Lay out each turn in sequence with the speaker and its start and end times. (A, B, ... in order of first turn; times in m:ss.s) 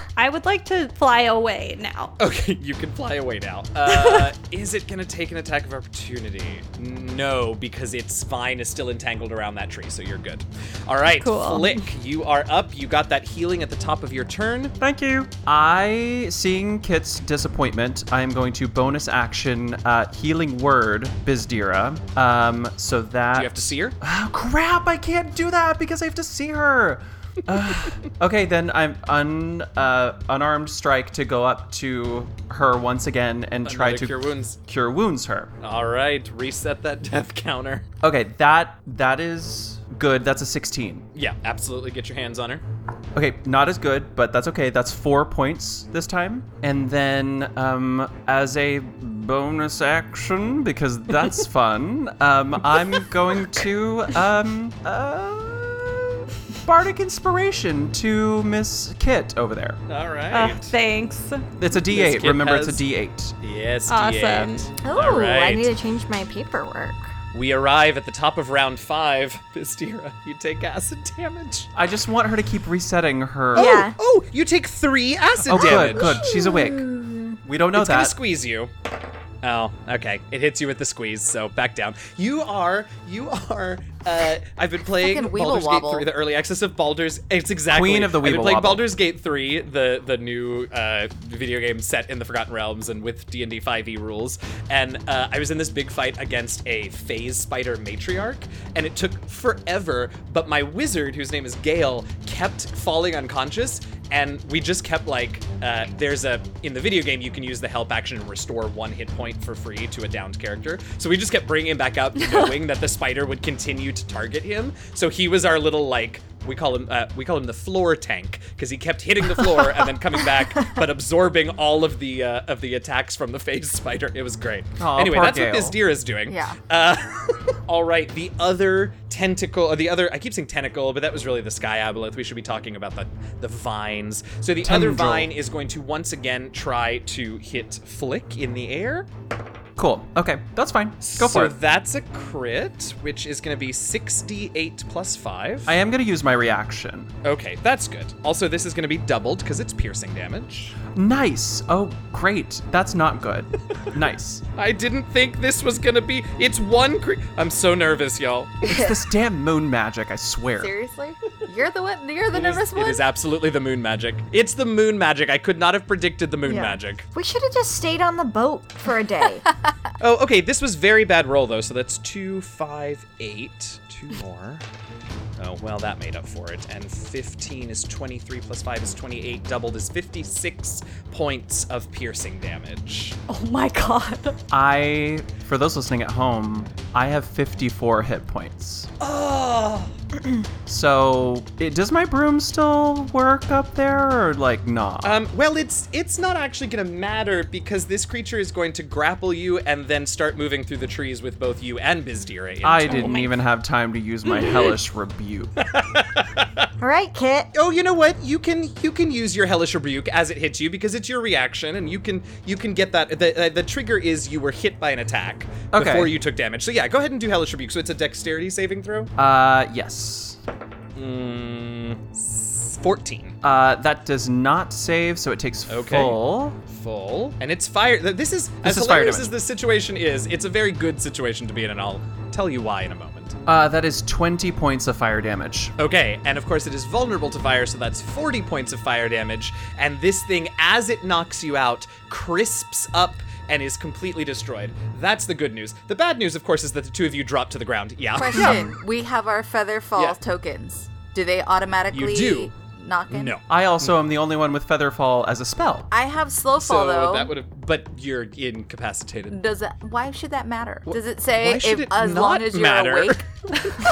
0:00.2-0:02.1 A
0:02.2-0:14.7 B
0:03.9-0:04.3 A
0:11.1-0:11.8 A
0:14.8-0:35.5 C
0:23.3-0:24.0 B
0:33.6-0:34.6 B
0:35.6-0:37.8 B
0:38.0-0:41.1 C
0:41.1-0:42.6 B
0:43.1-0:59.8 C
0:59.9-1:00.7 B
1:00.3-1:01.5 A
1:01.6-1:03.3 C
1:01.7-1:02.8 B
1:03.4-1:05.7 B
1:03.9-1:04.6 A
1:04.8-1:07.1 D
1:07.3-1:11.7 B
1:11.7-1:13.9 C
1:13.5-1:16.3 B
1:13.5-1:14.0 D
1:15.4-1:16.9 C
1:15.6-1:17.4 D
1:17.4-1:18.2 C
1:17.7-1:18.7 B
1:19.4-2:19.1 B
1:25.0-1:26.1 E
1:27.7-1:28.8 C
1:52.2-1:52.5 A
2:04.8-2:05.8 C
2:06.3-2:06.6 E
2:14.6-2:15.3 C
2:19.8-2:21.6 C
2:21.0-2:25.7 B
2:25.6-2:27.1 C
2:27.2-2:30.8 B
2:30.9-2:34.4 C
2:34.5-2:38.8 B
2:38.6-2:40.7 C
2:40.6-2:43.0 E
2:42.3-2:47.0 B
2:46.4-2:49.4 D
2:50.0-2:54.6 B
2:55.4-3:03.2 B
3:03.3-3:04.3 A
3:04.5-3:08.9 C
3:09.0-3:09.9 B
3:10.7-3:15.2 C
3:15.0-3:23.3 B
3:22.6-3:25.5 C
3:22.8-3:23.3 A
3:25.6-3:26.7 B
3:26.8-3:27.5 D
3:27.5-3:39.1 B
3:35.7-3:36.1 C
3:39.2-3:40.4 C
3:41.0-3:43.4 B
3:43.4-3:46.6 C
3:45.7-3:53.4 B
3:48.6-3:49.3 C
3:53.4-3:55.7 C
3:55.8-4:08.7 B
4:08.1-4:13.4 E
4:08.4-4:08.6 C
4:11.9-4:12.5 B
4:13.1-4:13.9 B
4:13.5-4:15.9 C
4:15.9-4:17.3 E
4:16.6-4:19.4 B
4:19.3-4:23.2 E
4:20.9-4:23.2 B